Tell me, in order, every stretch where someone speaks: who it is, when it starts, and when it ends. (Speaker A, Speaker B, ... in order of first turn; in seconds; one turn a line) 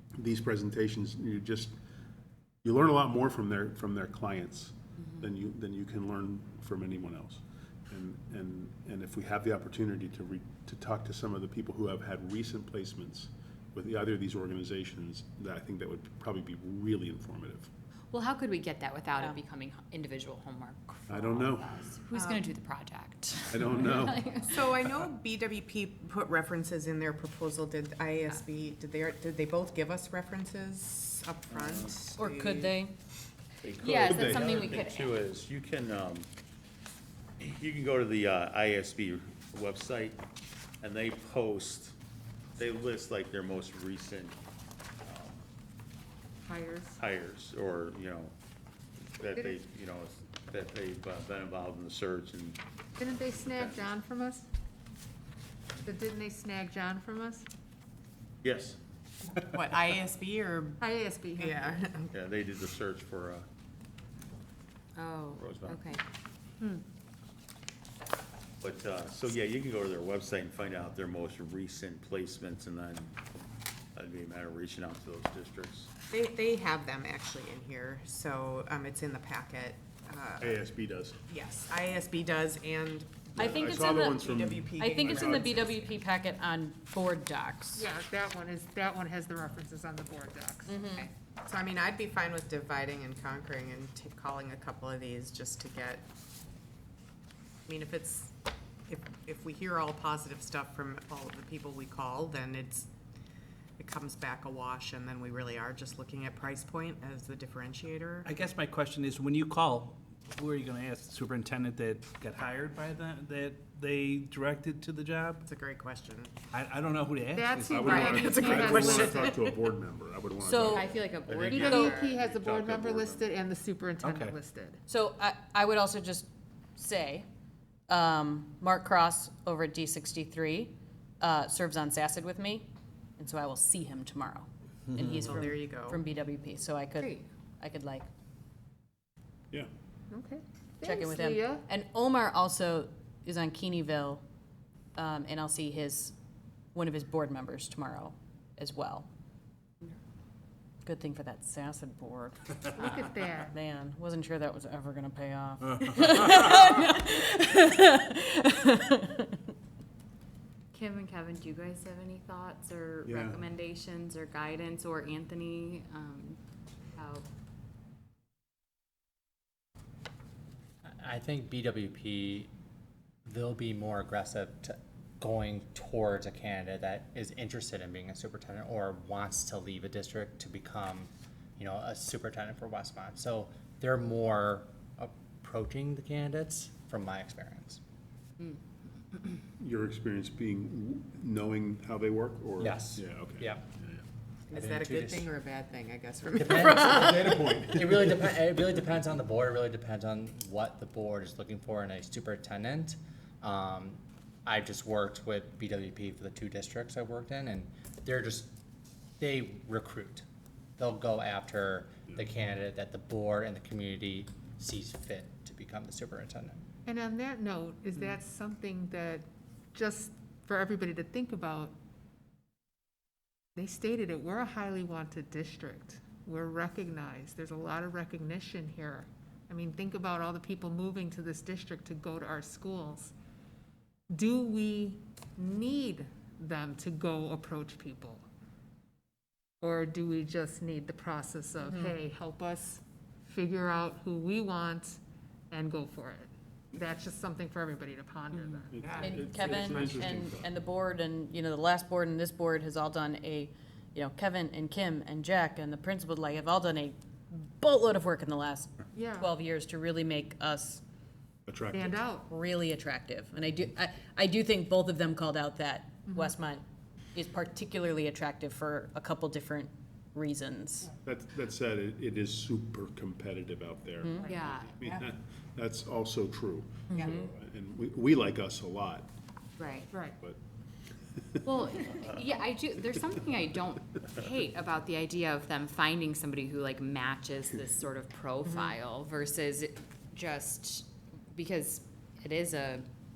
Speaker A: 0.2-1.8
Speaker A: 2.6-17.7
Speaker B: 18.1-24.8
Speaker C: 19.1-19.4
Speaker A: 21.1-21.8
Speaker D: 22.1-22.4
Speaker A: 23.5-24.2
Speaker D: 24.4-32.8
Speaker E: 31.5-31.9
Speaker C: 32.2-32.9
Speaker A: 33.7-34.7
Speaker B: 33.8-35.2
Speaker E: 33.8-36.3
Speaker E: 37.4-40.2
Speaker E: 40.8-41.9
Speaker E: 42.6-44.4
Speaker E: 45.0-45.4
Speaker F: 46.5-46.9
Speaker E: 46.9-48.3
Speaker E: 49.0-53.9
Speaker F: 53.0-54.5
Speaker F: 55.9-57.5
Speaker E: 58.4-58.8
Speaker D: 59.5-60.8
Speaker F: 60.8-61.6
Speaker D: 61.4-62.1
Speaker E: 62.1-63.5
Speaker B: 65.0-66.0
Speaker E: 65.4-65.8
Speaker E: 68.6-73.1
Speaker E: 74.0-75.9
Speaker D: 76.1-80.6
Speaker A: 80.4-81.2
Speaker D: 81.3-86.0
Speaker C: 83.4-84.2
Speaker A: 83.4-85.6
Speaker C: 84.8-87.9
Speaker F: 87.8-90.9
Speaker C: 90.7-91.0
Speaker B: 90.9-91.1
Speaker D: 91.4-96.0
Speaker D: 97.7-98.3
Speaker D: 98.9-102.9
Speaker D: 103.8-108.3
Speaker G: 108.2-115.4
Speaker D: 115.5-116.3
Speaker G: 116.5-118.9
Speaker F: 117.4-119.3
Speaker A: 117.7-121.0
Speaker D: 118.2-119.5
Speaker C: 120.4-120.9
Speaker B: 120.7-122.1
Speaker E: 121.3-123.4
Speaker F: 121.5-124.8
Speaker G: 124.0-124.4
Speaker C: 124.9-127.3
Speaker C: 127.9-138.1
Speaker D: 135.3-136.0
Speaker F: 140.1-141.7
Speaker C: 140.8-144.2
Speaker C: 145.0-146.2
Speaker C: 146.8-149.1
Speaker C: 150.8-159.4
Speaker F: 152.8-153.5
Speaker G: 155.8-156.2
Speaker B: 160.7-166.4
Speaker A: 163.1-163.4
Speaker B: 166.9-167.3
Speaker H: 170.9-172.5
Speaker H: 173.3-187.8
Speaker A: 189.6-194.0
Speaker H: 192.6-193.7
Speaker D: 194.5-197.4
Speaker H: 194.5-195.3
Speaker H: 196.3-208.5
Speaker A: 196.6-198.4
Speaker H: 209.2-210.3
Speaker H: 210.8-216.6
Speaker F: 216.9-221.8
Speaker F: 223.6-233.1
Speaker F: 234.1-238.2
Speaker F: 239.6-245.0
Speaker C: 241.6-241.9
Speaker F: 245.5-249.2
Speaker B: 248.3-248.7
Speaker A: 248.7-250.6
Speaker C: 249.0-260.8
Speaker F: 258.9-259.3
Speaker A: 261.5-262.0
Speaker F: 261.7-262.3
Speaker C: 262.2-266.6
Speaker F: 266.1-266.4
Speaker C: 267.1-270.9
Speaker A: 271.0-279.1
Speaker B: 274.2-274.8
Speaker C: 276.9-277.2
Speaker B: 279.6-279.9
Speaker B: 281.4-292.9